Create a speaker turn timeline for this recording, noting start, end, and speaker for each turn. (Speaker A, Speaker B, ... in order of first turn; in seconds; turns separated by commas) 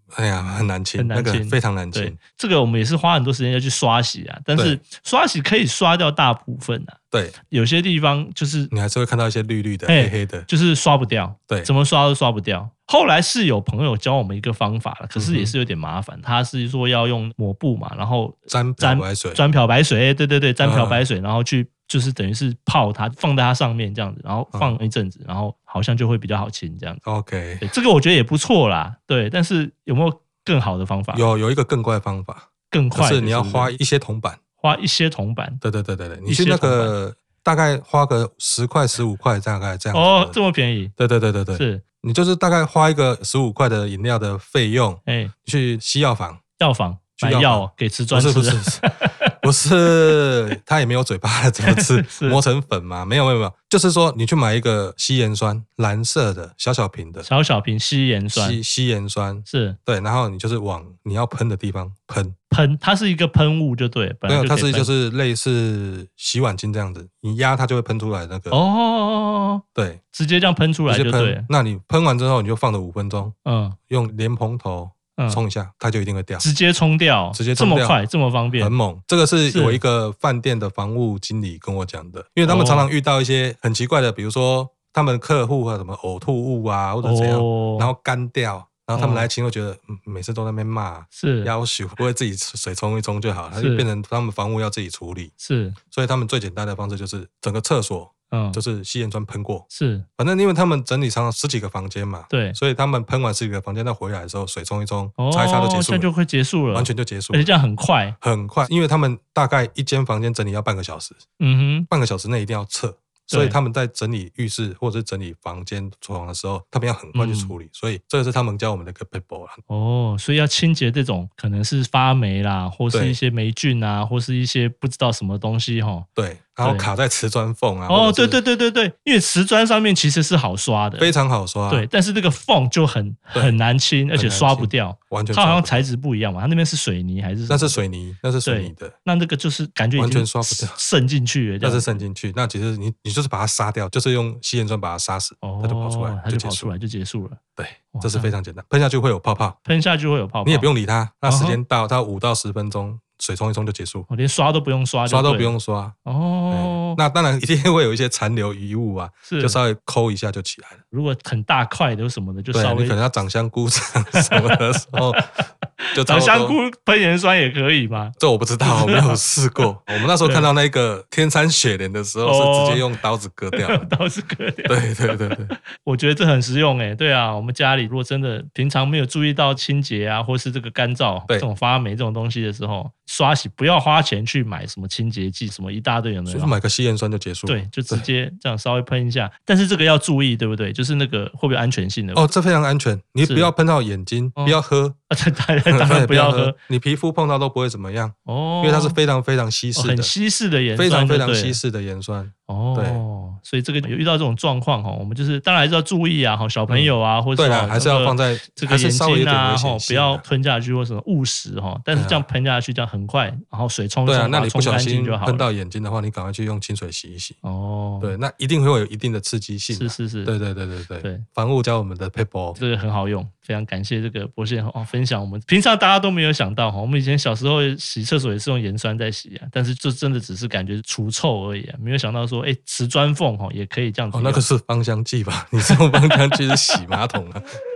Speaker A: 0.1-2.2, Speaker B: 1.0-8.7, Speaker A: 4.5-4.8, Speaker A: 8.7-10.5, Speaker B: 9.9-27.0, Speaker A: 15.2-15.5, Speaker A: 18.5-19.4, Speaker A: 20.6-21.0, Speaker A: 27.0-27.6, Speaker B: 27.6-31.3, Speaker A: 31.1-34.4, Speaker B: 32.7-33.7, Speaker B: 34.6-35.6, Speaker A: 35.6-40.4, Speaker B: 36.3-37.0, Speaker B: 39.9-40.9, Speaker A: 41.0-46.4, Speaker B: 41.5-41.8, Speaker B: 45.0-45.3, Speaker B: 46.6-49.3, Speaker A: 47.2-48.9, Speaker A: 49.4-57.3, Speaker B: 51.6-52.4, Speaker B: 57.2-58.6, Speaker A: 58.3-62.3, Speaker B: 59.5-59.8, Speaker B: 62.5-64.9, Speaker A: 64.3-68.6, Speaker B: 68.5-71.5, Speaker A: 69.7-70.0, Speaker A: 70.9-73.3, Speaker B: 73.4-73.8, Speaker A: 73.9-76.4, Speaker B: 75.2-75.4, Speaker B: 76.4-78.7, Speaker A: 77.3-78.0, Speaker A: 78.6-95.3, Speaker B: 79.5-79.8, Speaker B: 82.4-82.9, Speaker B: 87.0-87.9, Speaker B: 88.9-89.3, Speaker B: 91.1-91.5, Speaker B: 93.5-93.9, Speaker B: 95.4-95.8, Speaker A: 95.9-99.7, Speaker B: 98.3-98.6, Speaker B: 99.7-100.0, Speaker A: 100.2-106.1, Speaker B: 102.3-102.6, Speaker B: 105.2-108.2, Speaker A: 106.7-107.5, Speaker A: 108.2-111.2, Speaker B: 111.4-111.9, Speaker A: 111.9-119.6, Speaker B: 113.3-113.5, Speaker B: 117.1-117.5, Speaker B: 119.7-126.1, Speaker A: 122.9-123.2, Speaker A: 126.2-128.4, Speaker B: 126.6-126.9, Speaker B: 127.9-131.1, Speaker A: 131.0-131.9, Speaker B: 131.7-137.8, Speaker A: 134.1-135.8, Speaker A: 137.5-138.9, Speaker B: 138.4-142.0, Speaker A: 140.0-140.8, Speaker A: 141.6-146.7, Speaker B: 145.4-147.4, Speaker A: 147.6-149.6, Speaker B: 147.9-148.3, Speaker B: 149.6-150.7, Speaker A: 150.4-154.1, Speaker B: 151.2-151.6, Speaker B: 154.1-157.0, Speaker A: 155.1-155.9, Speaker A: 156.5-160.8, Speaker B: 159.2-159.6, Speaker B: 160.9-163.0, Speaker A: 162.5-165.2, Speaker B: 164.1-169.7, Speaker A: 165.9-166.6, Speaker A: 168.2-173.9, Speaker B: 170.2-170.5, Speaker B: 172.2-172.9, Speaker B: 173.5-186.5, Speaker A: 174.7-175.5, Speaker A: 186.3-188.0, Speaker B: 187.5-192.3, Speaker A: 192.1-195.0, Speaker B: 193.2-193.5, Speaker B: 195.1-196.6, Speaker A: 195.7-200.1, Speaker B: 198.2-199.0, Speaker B: 199.8-201.6, Speaker A: 200.7-203.0, Speaker B: 202.5-215.5, Speaker A: 206.7-210.2, Speaker A: 211.9-212.3, Speaker A: 214.1-217.4, Speaker B: 217.4-218.1, Speaker A: 218.0-222.6, Speaker B: 219.7-220.3, Speaker B: 222.6-234.4, Speaker A: 234.1-237.4, Speaker B: 235.6-236.8